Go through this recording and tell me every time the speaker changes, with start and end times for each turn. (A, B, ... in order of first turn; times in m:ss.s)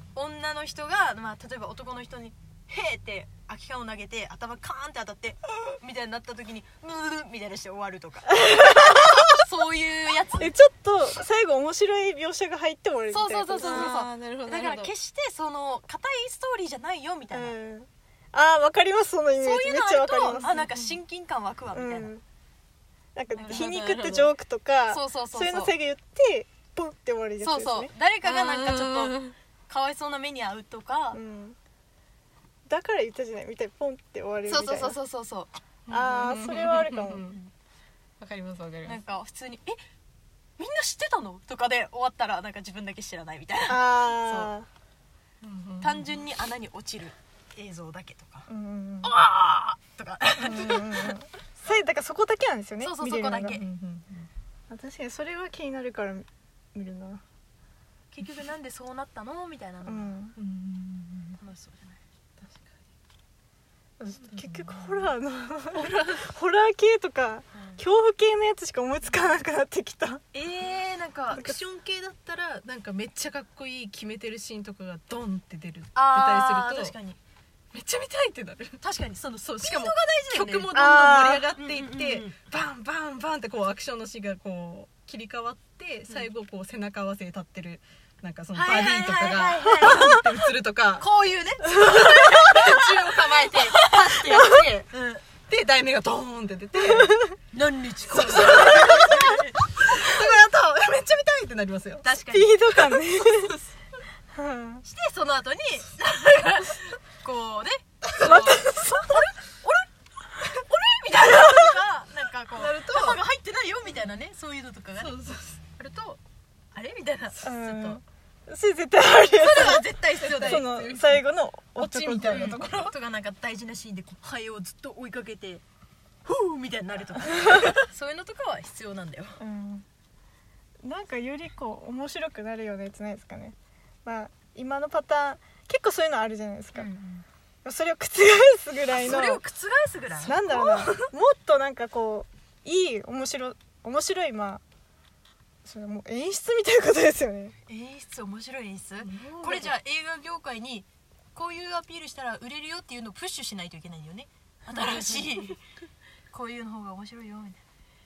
0:00.1-0:10.6 A
0:08.3-0:09.3 B
0:10.4-0:14.0 B
0:13.1-0:17.6 A
0:13.6-0:14.9 C
0:17.3-0:20.7 B
0:19.4-0:22.1 A
0:21.7-0:22.2 B
0:23.1-0:27.9 B
0:23.3-0:24.3 A
0:24.9-0:25.7 A
0:27.4-0:31.2 A
0:28.2-0:29.4 C
0:31.1-0:31.6 B
0:32.7-0:35.0 B
0:34.4-0:35.5 A
0:35.9-0:37.3 B
0:35.9-0:37.4 C
0:38.2-0:39.0 C
0:38.8-0:39.8 A
0:40.6-0:44.5 A
0:43.6-0:44.7 B
0:45.4-0:46.1 C
0:45.8-0:48.5 A
0:48.5-0:49.1 B
0:49.0-0:51.1 A
0:50.4-0:53.6 B
0:52.8-0:53.6 A
0:53.5-0:54.3 C
0:54.7-0:57.2 B
0:58.1-1:00.1 A
0:59.8-1:00.4 B
1:00.4-1:01.4 C
1:01.4-1:02.0 A
1:02.4-1:02.7 C
1:04.0-1:10.2 B
1:04.2-1:05.1 C
1:05.7-1:06.2 C
1:07.5-1:07.8 A
1:10.3-1:11.5 A
1:11.3-1:11.6 B
1:11.4-1:16.9 C
1:15.9-1:17.2 A
1:17.7-1:18.8 C
1:18.8-1:20.8 A
1:19.6-1:31.0 C
1:20.7-1:21.4 B
1:21.6-1:22.3 A
1:28.5-1:30.2 A
1:31.0-1:35.2 A
1:31.7-1:34.9 C
1:35.5-1:37.2 C
1:36.9-1:37.3 B
1:37.5-1:39.6 A
1:38.1-1:42.0 C
1:42.0-1:42.6 A
1:42.3-1:43.5 B
1:42.8-1:43.6 C
1:44.3-1:44.8 B
1:44.8-1:55.2 A
1:48.2-1:49.2 B
1:52.6-1:53.2 C
1:55.0-1:55.6 C
1:55.8-1:56.2 A
1:56.7-1:58.0 A
1:57.4-1:59.8 B
1:59.3-2:00.7 A
2:00.2-2:01.2 C
2:00.4-2:02.6 B
2:01.8-2:02.9 C
2:02.3-2:05.6 A
2:06.2-2:09.4 A
2:09.4-2:09.8 B
2:10.8-2:16.9 B
2:16.7-2:17.2 A
2:17.6-2:19.4 B
2:18.9-2:20.4 A
2:20.2-2:24.6 B
2:20.4-2:21.1 C
2:25.6-2:27.6 B
2:27.6-2:35.6 A
2:29.0-2:29.7 C
2:34.7-2:35.4 C
2:36.3-2:37.6 A